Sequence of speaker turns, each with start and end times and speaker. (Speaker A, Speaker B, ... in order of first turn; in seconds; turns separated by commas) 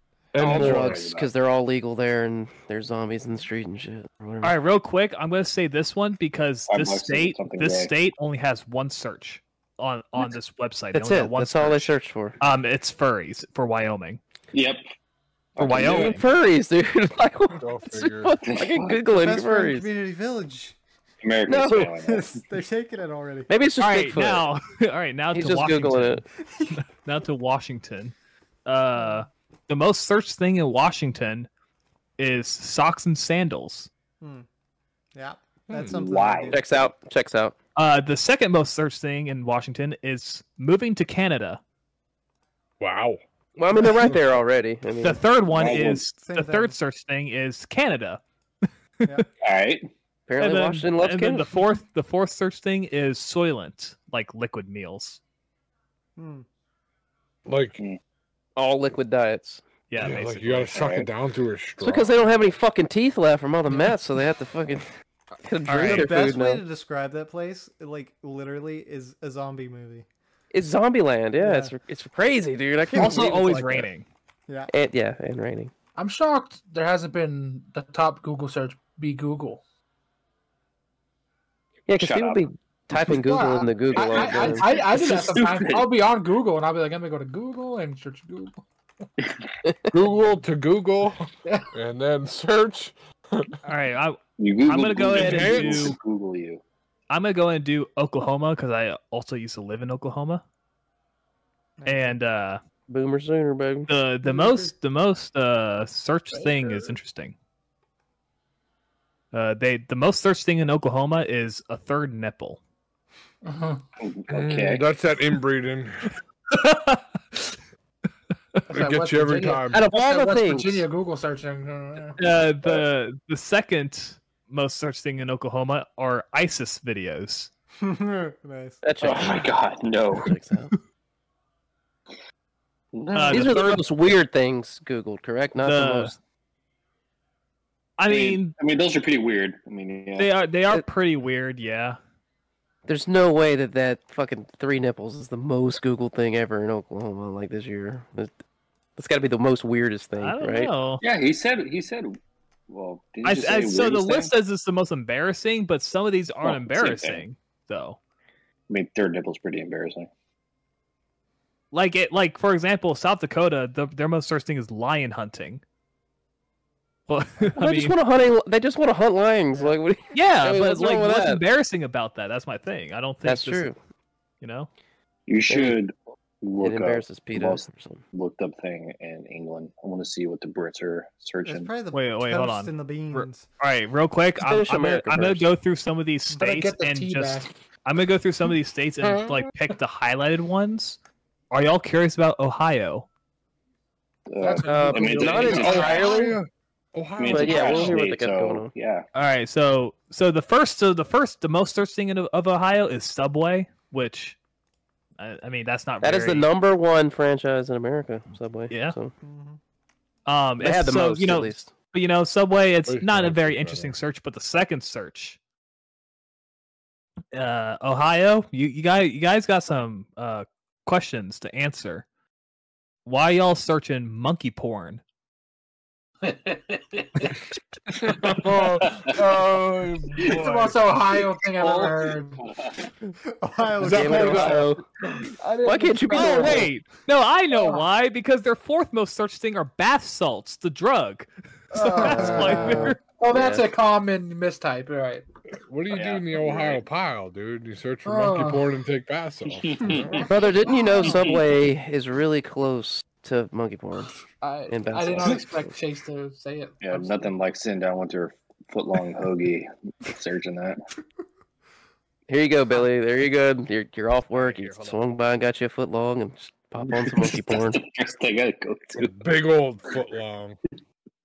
Speaker A: 0.3-1.0, Speaker B: 0.4-1.3, Speaker C: 0.4-4.6, Speaker D: 4.4-14.2, Speaker B: 6.7-7.9, Speaker C: 10.9-12.4, Speaker B: 14.5-14.8, Speaker B: 15.6-16.2, Speaker D: 15.6-16.2, Speaker C: 15.6-19.9, Speaker A: 17.6-18.4, Speaker B: 18.5-19.1, Speaker E: 19.1-20.8, Speaker B: 21.2-22.4, Speaker C: 21.5-22.0, Speaker E: 22.0-23.5, Speaker C: 23.5-24.5, Speaker D: 23.8-26.2, Speaker C: 25.3-26.2, Speaker D: 27.0-28.1, Speaker D: 28.7-31.5, Speaker E: 29.0-29.2, Speaker D: 32.2-33.9, Speaker E: 34.2-34.5, Speaker E: 35.1-36.9, Speaker A: 35.7-36.0, Speaker B: 35.9-36.6, Speaker C: 36.5-37.5, Speaker D: 37.8-41.6, Speaker A: 42.8-43.2, Speaker C: 43.6-45.2, Speaker D: 45.0-48.2, Speaker B: 45.5-46.0, Speaker E: 45.8-46.8, Speaker B: 49.4-49.9, Speaker C: 50.3-51.5, Speaker D: 50.4-55.2, Speaker E: 56.2-56.5, Speaker A: 57.5-57.8, Speaker C: 58.6-59.6, Speaker D: 59.9-60.8, Speaker A: 60.0-62.2, Speaker B: 60.7-61.1, Speaker C: 61.8-64.9, Speaker C: 65.4-66.6, Speaker D: 65.7-66.2, Speaker E: 65.9-70.1, Speaker C: 70.5-73.9, Speaker E: 71.4-71.7, Speaker E: 72.9-73.2, Speaker D: 73.0-74.1, Speaker C: 74.7-75.7, Speaker F: 76.0-79.6, Speaker C: 81.9-85.0, Speaker B: 82.0-82.5, Speaker F: 83.1-88.6, Speaker B: 83.9-85.9, Speaker A: 89.9-93.6, Speaker D: 93.6-96.0, Speaker B: 94.4-96.6, Speaker A: 95.1-96.0, Speaker D: 97.1-100.4, Speaker E: 101.8-102.2, Speaker D: 101.9-102.6, Speaker C: 102.9-103.9, Speaker D: 103.9-107.3, Speaker E: 104.3-104.7, Speaker F: 106.3-107.0, Speaker D: 109.3-112.6, Speaker F: 113.4-113.8, Speaker B: 114.0-114.8, Speaker A: 114.3-116.1, Speaker D: 116.5-117.6, Speaker F: 118.7-122.2, Speaker A: 118.7-119.9, Speaker C: 119.7-120.8, Speaker D: 122.2-127.5, Speaker E: 127.8-128.8, Speaker C: 128.8-129.5, Speaker B: 129.0-130.3, Speaker C: 130.1-130.7, Speaker B: 132.9-133.8, Speaker D: 133.1-133.8, Speaker C: 133.3-136.1, Speaker D: 135.6-136.1, Speaker D: 138.0-138.6, Speaker B: 138.1-140.3, Speaker D: 140.2-142.0, Speaker C: 142.9-148.3, Speaker C: 149.0-150.7, Speaker D: 150.2-151.0, Speaker B: 151.0-152.2, Speaker B: 152.7-154.3, Speaker D: 153.2-158.0, Speaker B: 156.4-157.2, Speaker B: 158.7-160.1, Speaker D: 161.7-165.6, Speaker D: 167.1-168.0, Speaker C: 167.6-171.4, Speaker D: 170.1-173.7, Speaker C: 173.2-173.8, Speaker D: 174.4-174.7, Speaker B: 175.3-181.7, Speaker C: 175.5-175.8, Speaker C: 176.6-178.0, Speaker E: 181.4-183.5, Speaker D: 181.9-191.0, Speaker C: 184.4-185.5, Speaker F: 186.4-187.5, Speaker A: 189.0-189.5, Speaker D: 191.5-193.1, Speaker B: 194.3-196.1, Speaker F: 194.4-196.1, Speaker C: 194.7-196.4, Speaker A: 195.3-198.0, Speaker B: 197.2-199.1, Speaker C: 197.3-198.7, Speaker D: 199.1-204.4, Speaker D: 205.2-206.5, Speaker C: 206.0-209.1, Speaker D: 208.7-209.0, Speaker E: 209.2-209.6, Speaker D: 210.3-215.4, Speaker C: 210.6-211.7, Speaker A: 212.9-214.0, Speaker D: 217.3-222.1, Speaker D: 223.1-225.0, Speaker F: 226.2-227.4, Speaker A: 228.0-230.9, Speaker F: 228.3-228.7, Speaker F: 230.2-232.4, Speaker B: 231.6-232.9, Speaker E: 233.3-234.7, Speaker A: 233.8-234.8, Speaker C: 233.8-234.8, Speaker F: 235.3-236.7, Speaker C: 235.6-236.7, Speaker D: 236.1-243.0, Speaker F: 237.5-237.9, Speaker F: 241.7-245.3, Speaker E: 241.9-242.9, Speaker C: 242.1-243.7, Speaker A: 245.6-250.3, Speaker B: 245.9-246.8, Speaker F: 248.1-248.7, Speaker B: 249.5-250.3, Speaker F: 250.0-251.2, Speaker C: 250.3-254.1, Speaker B: 251.0-251.4, Speaker F: 254.4-257.3, Speaker C: 254.7-255.7, Speaker B: 256.8-260.8, Speaker C: 262.3-267.8, Speaker D: 264.3-265.0, Speaker B: 266.9-269.4, Speaker A: 268.9-270.6